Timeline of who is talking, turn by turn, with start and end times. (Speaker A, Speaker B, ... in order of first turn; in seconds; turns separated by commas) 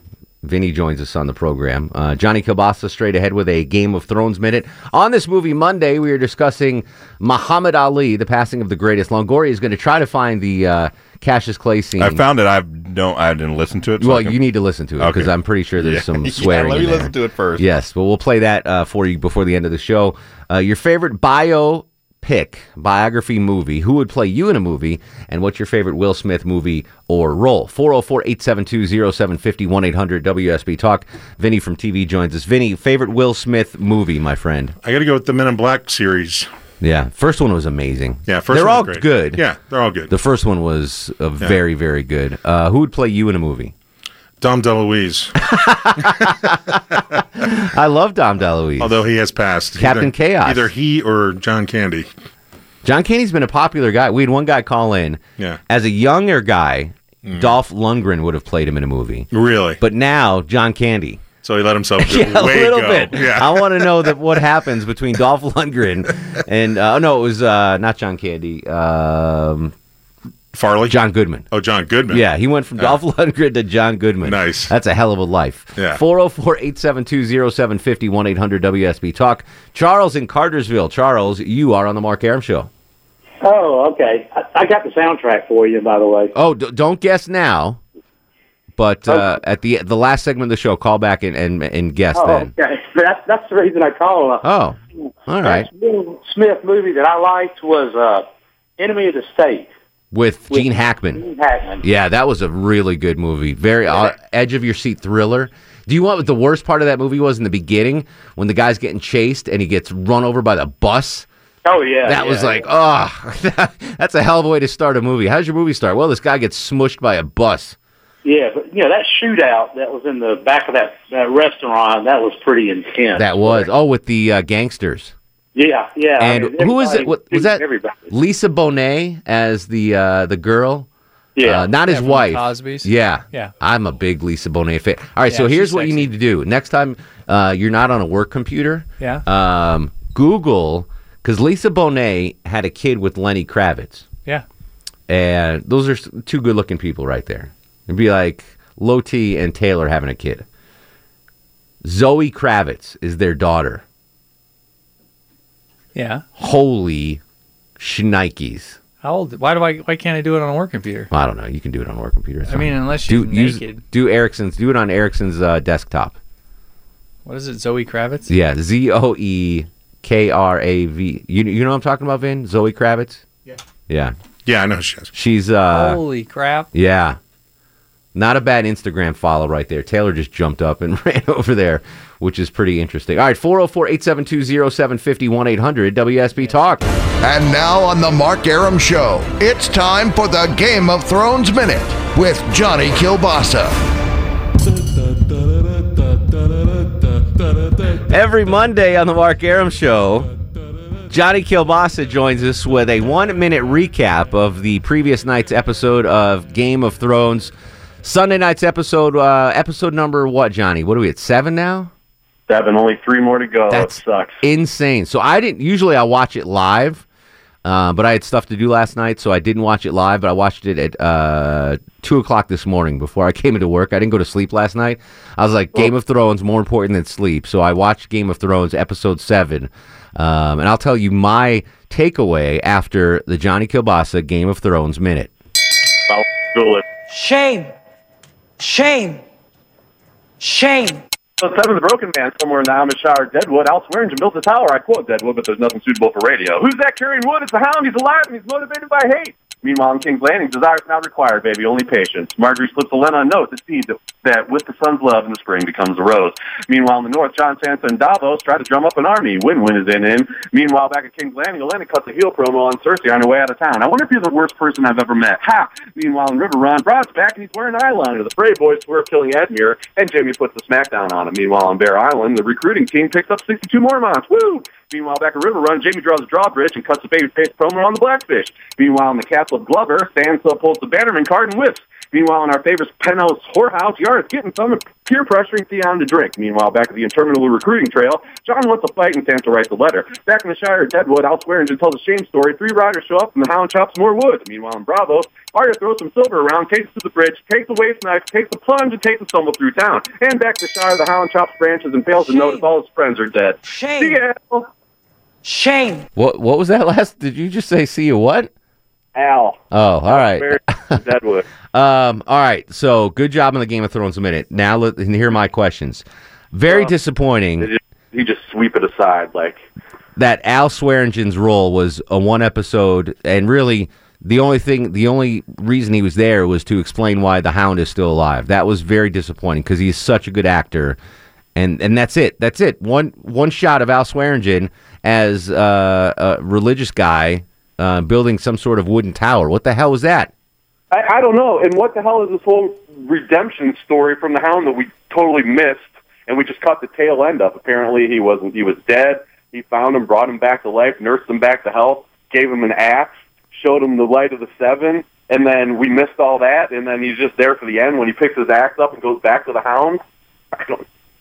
Speaker A: 0.4-12.2, Speaker B: 12.0-14.4, Speaker A: 14.0-34.8, Speaker B: 15.0-17.7, Speaker C: 34.8-36.5, Speaker A: 36.8-39.4, Speaker C: 38.3-40.1, Speaker A: 40.1-43.7, Speaker C: 44.4-45.3, Speaker A: 45.4-46.6, Speaker A: 47.4-49.1, Speaker C: 48.8-52.1, Speaker A: 49.8-50.7, Speaker A: 52.8-61.3, Speaker C: 57.2-57.5, Speaker C: 59.3-59.8, Speaker C: 61.4-64.1, Speaker A: 62.0-69.7, Speaker C: 70.5-71.0, Speaker A: 70.9-71.5, Speaker C: 71.5-72.2, Speaker A: 72.1-82.7, Speaker C: 74.2-74.7, Speaker D: 83.4-86.3, Speaker A: 86.3-87.8, Speaker A: 88.8-92.5, Speaker D: 92.1-94.5, Speaker A: 94.4-95.7, Speaker D: 95.4-99.7, Speaker A: 100.1-101.2, Speaker D: 100.5-101.8, Speaker A: 101.8-111.3, Speaker D: 111.7-112.7, Speaker A: 112.0-117.8, Speaker D: 118.2-123.7, Speaker A: 123.2-125.1, Speaker D: 125.5-128.1, Speaker A: 126.2-130.9, Speaker D: 131.4-131.7, Speaker A: 131.4-144.1, Speaker E: 131.8-133.5, Speaker E: 135.3-136.1, Speaker E: 139.0-139.2, Speaker A: 145.1-150.5, Speaker A: 151.8-153.8, Speaker E: 155.9-156.2, Speaker A: 156.4-157.2, Speaker A: 157.8-158.8, Speaker E: 159.0-161.1, Speaker A: 161.1-166.2, Speaker E: 162.5-163.8, Speaker E: 167.2-168.3, Speaker A: 168.3-173.2, Speaker A: 173.9-174.2, Speaker C: 174.4-175.1, Speaker A: 175.1-176.0, Speaker E: 175.7-176.7, Speaker A: 176.7-177.2, Speaker A: 178.1-186.9, Speaker F: 187.2-193.8, Speaker A: 198.0-200.3, Speaker A: 201.1-211.9, Speaker G: 212.5-214.4, Speaker A: 213.7-217.1, Speaker A: 217.6-235.3, Speaker G: 236.1-236.8, Speaker H: 237.1-237.7, Speaker H: 238.6-239.2, Speaker H: 240.4-241.0, Speaker G: 241.4-304.7, Speaker H: 302.2-302.6, Speaker H: 303.6-304.2, Speaker H: 305.4-306.1, Speaker A: 306.2-308.5, Speaker G: 309.1-311.5, Speaker A: 309.7-311.0, Speaker A: 311.7-317.7, Speaker G: 316.7-316.9, Speaker G: 317.6-319.6, Speaker A: 320.2-331.0, Speaker A: 331.6-340.3, Speaker G: 340.9-360.0, Speaker G: 360.5-360.8